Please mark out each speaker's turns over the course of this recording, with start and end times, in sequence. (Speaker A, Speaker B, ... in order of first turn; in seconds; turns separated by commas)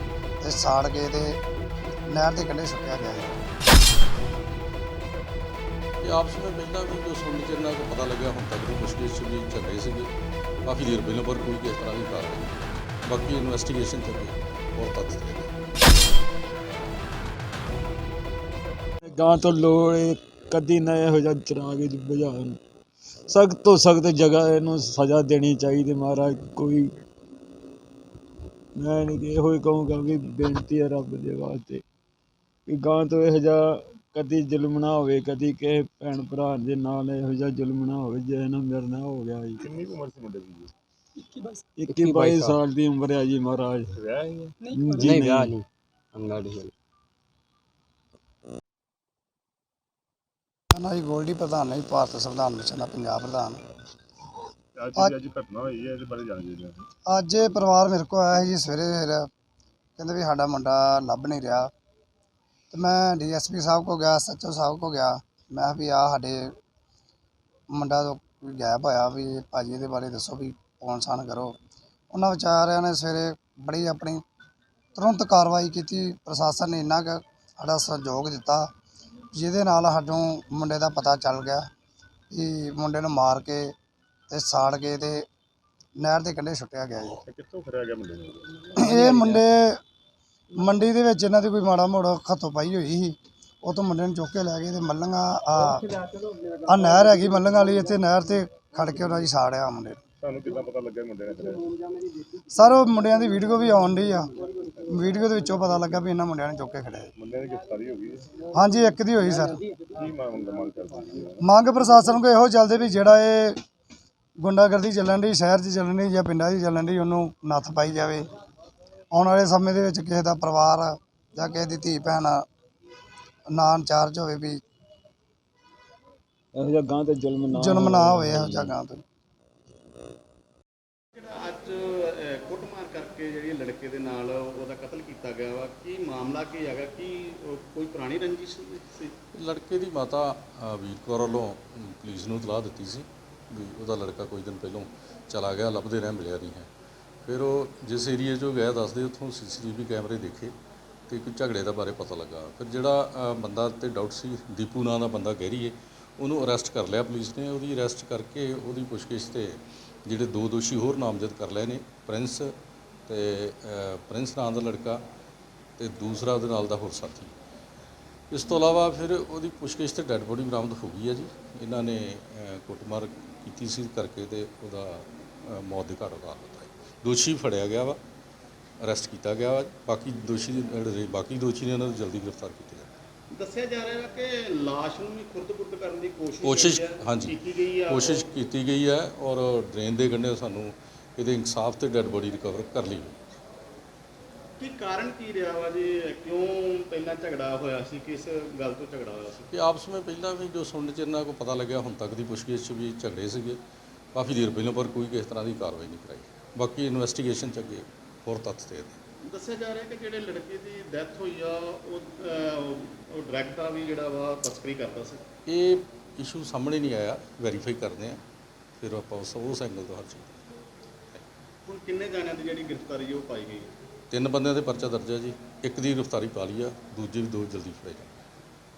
Speaker A: 0.4-1.3, Speaker A: 2.1-3.4, Speaker B: 6.0-10.1, Speaker B: 10.7-15.5, Speaker C: 19.1-22.6, Speaker C: 23.3-26.9, Speaker C: 28.8-31.8, Speaker C: 32.7-39.7, Speaker D: 39.6-40.7, Speaker C: 41.8-44.0, Speaker E: 41.9-42.6, Speaker D: 44.0-44.5, Speaker C: 44.7-45.5, Speaker E: 45.1-46.7, Speaker A: 50.7-53.6, Speaker D: 54.8-56.8, Speaker A: 57.1-59.2, Speaker A: 60.0-61.7, Speaker A: 62.7-66.5, Speaker A: 67.7-71.5, Speaker A: 72.1-74.2, Speaker A: 75.0-78.7, Speaker A: 79.3-81.6, Speaker A: 82.3-83.7, Speaker A: 84.3-85.2, Speaker A: 86.0-87.2, Speaker D: 87.2-89.3, Speaker A: 88.7-89.8, Speaker A: 90.5-96.0, Speaker A: 96.7-100.0, Speaker D: 100.2-101.7, Speaker A: 102.5-104.3, Speaker A: 104.9-107.1, Speaker D: 107.2-108.3, Speaker A: 108.5-109.6, Speaker D: 109.9-111.4, Speaker A: 111.5-113.6, Speaker A: 114.4-118.3, Speaker A: 119.1-122.4, Speaker A: 123.5-124.6, Speaker C: 126.5-128.8, Speaker A: 127.5-129.0, Speaker F: 131.1-139.2, Speaker B: 139.3-146.7, Speaker B: 147.3-150.6, Speaker B: 151.1-162.5, Speaker B: 163.1-165.0, Speaker B: 165.8-167.3, Speaker B: 168.3-178.0, Speaker B: 178.8-182.9, Speaker F: 183.3-188.3, Speaker B: 186.4-193.2, Speaker F: 194.6-199.5, Speaker B: 199.5-203.6, Speaker B: 204.1-209.0, Speaker F: 209.2-215.2, Speaker B: 215.5-218.2, Speaker B: 218.8-220.4, Speaker F: 221.7-223.7, Speaker B: 224.1-228.2